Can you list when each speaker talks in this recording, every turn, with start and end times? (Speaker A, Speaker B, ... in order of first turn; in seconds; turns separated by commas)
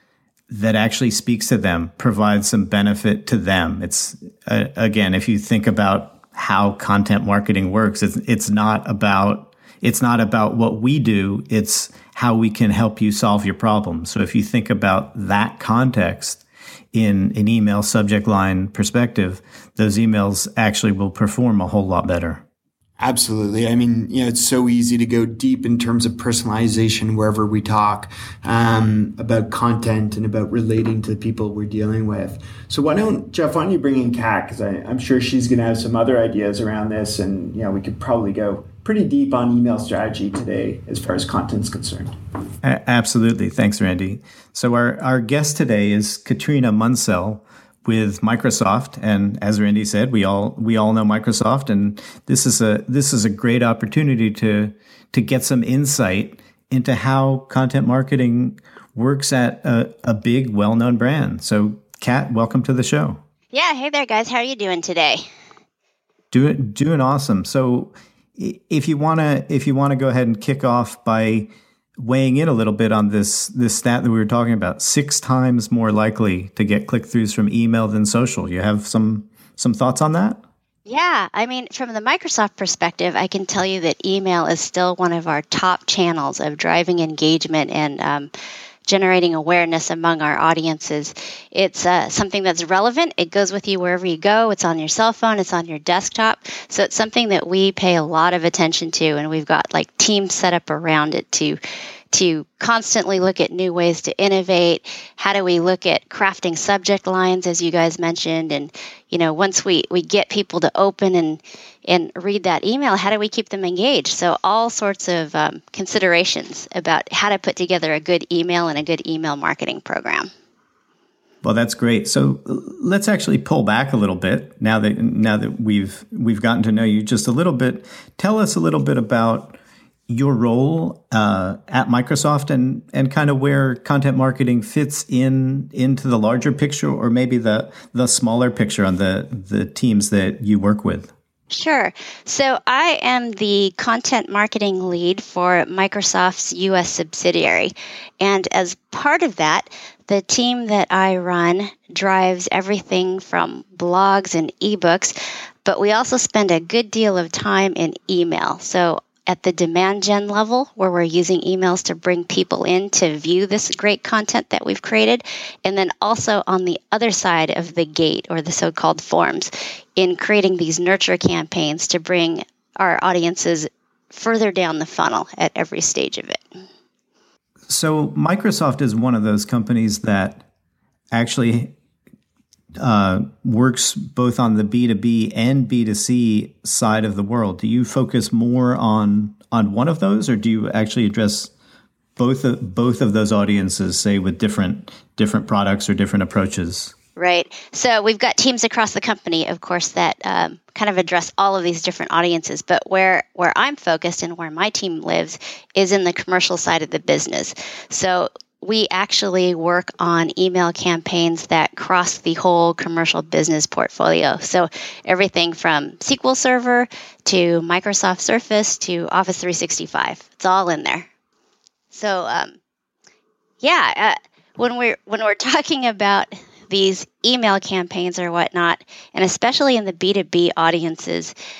Speaker A: 0.5-16.4, Speaker A: 16.9-22.4, Speaker B: 23.0-42.1, Speaker A: 42.6-63.2, Speaker C: 63.5-65.2, Speaker A: 66.3-80.4, Speaker C: 80.9-88.3, Speaker C: 88.9-101.6, Speaker C: 102.1-120.3, Speaker A: 121.4-141.1, Speaker C: 141.5-155.1, Speaker C: 155.7-176.4, Speaker A: 177.7-180.4, Speaker A: 181.1-181.7, Speaker A: 182.8-191.5, Speaker A: 192.2-196.9, Speaker C: 197.2-221.1, Speaker C: 221.9-222.6, Speaker C: 223.6-231.3